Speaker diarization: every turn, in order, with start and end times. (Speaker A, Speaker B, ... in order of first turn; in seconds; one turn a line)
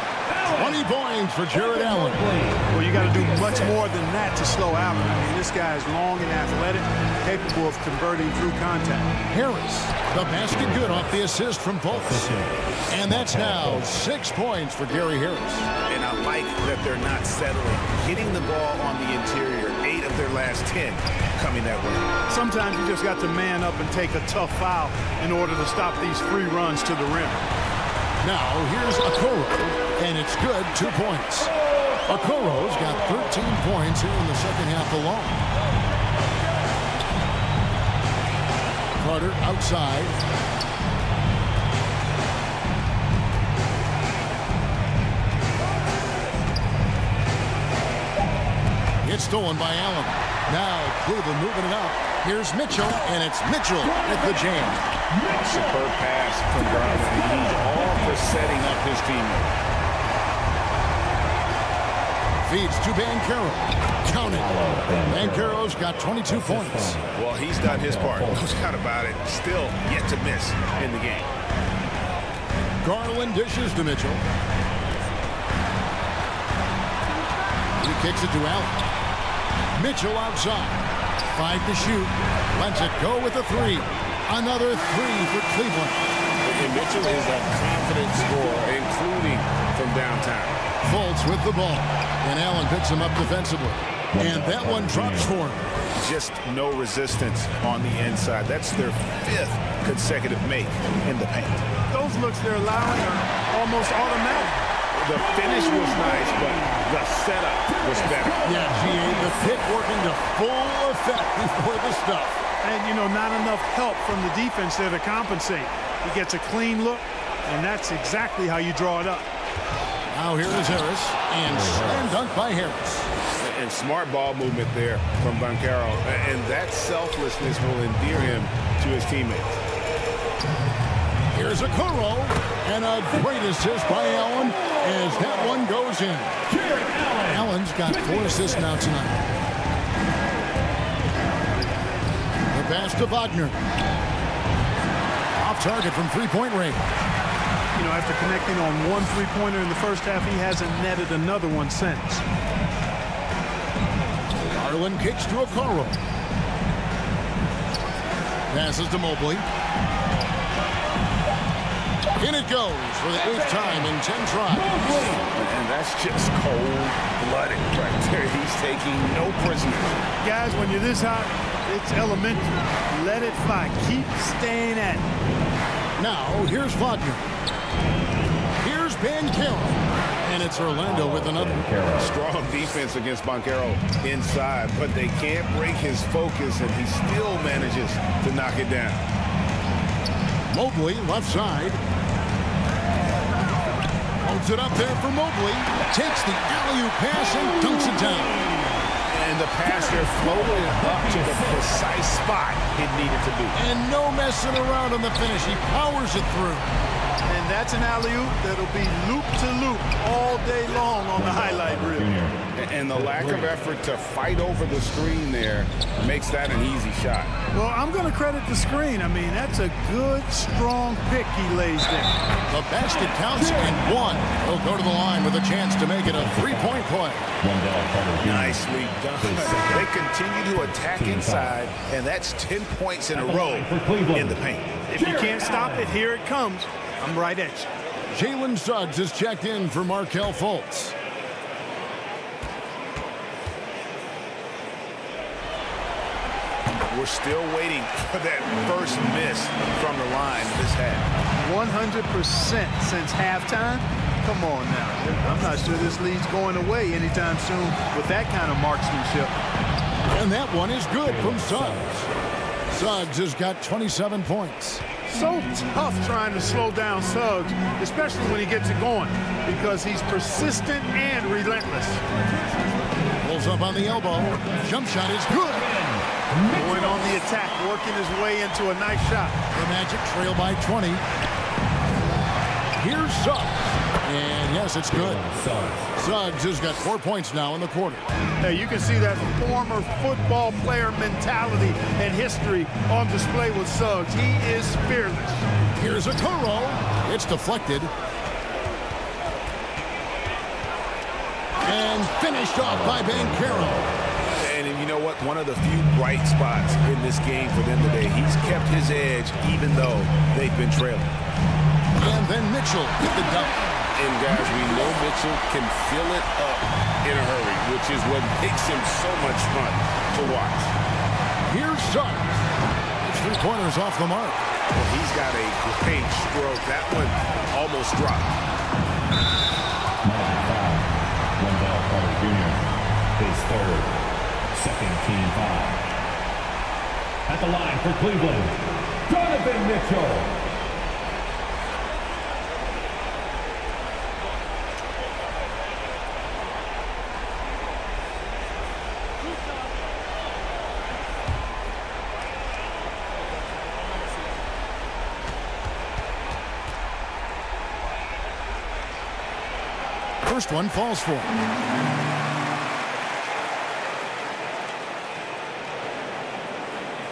Speaker A: 0.3-0.9
Speaker B: 0.5-2.3
Speaker A: 1.5-3.5
Speaker C: 2.7-9.2
Speaker B: 9.3-15.7
Speaker A: 10.5-11.1
Speaker A: 11.9-14.0
Speaker D: 15.9-22.0
Speaker C: 22.3-27.4
Speaker B: 28.2-31.5
Speaker A: 31.6-33.4
Speaker B: 32.1-35.4
Speaker B: 39.0-40.2
Speaker B: 49.0-54.8
Speaker A: 53.8-55.9
Speaker D: 55.3-59.5
Speaker A: 56.5-58.3
Speaker B: 62.5-64.5
Speaker A: 64.1-65.6
Speaker B: 65.1-67.0
Speaker A: 66.3-67.1
Speaker D: 67.1-71.3
Speaker A: 67.6-68.4
Speaker B: 72.8-74.2
Speaker B: 77.8-78.8
Speaker B: 79.8-80.8
Speaker B: 81.3-86.0
Speaker D: 86.4-90.6
Speaker B: 90.9-95.7
Speaker A: 94.1-95.3
Speaker D: 96.0-101.7
Speaker C: 101.9-104.7
Speaker D: 104.9-108.5
Speaker A: 105.3-106.8
Speaker A: 107.7-109.7
Speaker B: 108.4-112.4
Speaker C: 112.6-119.3
Speaker B: 120.1-123.1
Speaker A: 121.5-122.2
Speaker D: 123.4-129.6
Speaker B: 131.3-136.4
Speaker A: 136.5-138.8
Speaker B: 137.3-139.2
Speaker B: 142.5-143.6
Speaker B: 145.3-147.0
Speaker C: 147.8-152.2
Speaker B: 154.4-156.0
Speaker B: 158.5-159.5
Speaker B: 162.2-164.8
Speaker A: 163.2-163.9
Speaker A: 164.5-165.2
Speaker D: 165.3-170.0
Speaker C: 170.2-175.1
Speaker B: 176.0-177.3
Speaker B: 178.6-181.7
Speaker A: 180.8-182.1
Speaker D: 182.0-189.1
Speaker B: 190.5-191.8
Speaker B: 194.2-198.4
Speaker D: 199.1-203.6
Speaker A: 199.7-201.8
Speaker B: 203.5-206.7
Speaker C: 207.2-212.1
Speaker A: 211.2-213.5
Speaker D: 212.6-217.3
Speaker C: 217.5-222.2
Speaker B: 222.5-227.2
Speaker A: 223.4-223.8
Speaker A: 226.0-226.8
Speaker A: 227.4-229.9
Speaker D: 228.2-234.8
Speaker A: 230.9-231.5
Speaker A: 233.2-235.9
Speaker C: 234.9-237.7
Speaker B: 238.1-240.9
Speaker D: 246.9-251.1
Speaker C: 251.4-259.4
Speaker B: 260.1-262.1
Speaker A: 261.0-262.1
Speaker B: 262.7-264.8
Speaker C: 265.1-272.0
Speaker B: 273.2-275.7
Speaker A: 275.4-277.1
Speaker C: 276.5-279.4
Speaker B: 279.5-281.1
Speaker B: 282.8-285.2
Speaker A: 284.9-285.9
Speaker B: 286.0-288.1
Speaker C: 288.4-295.4
Speaker B: 295.8-297.9
Speaker B: 301.6-303.9
Speaker A: 302.6-303.9
Speaker D: 304.3-311.1
Speaker B: 312.0-313.5
Speaker D: 313.9-320.7
Speaker B: 321.5-324.4
Speaker D: 324.7-328.4
Speaker A: 330.0-332.6
Speaker A: 333.2-334.0
Speaker A: 334.5-335.8
Speaker A: 337.3-340.3
Speaker B: 360.2-361.3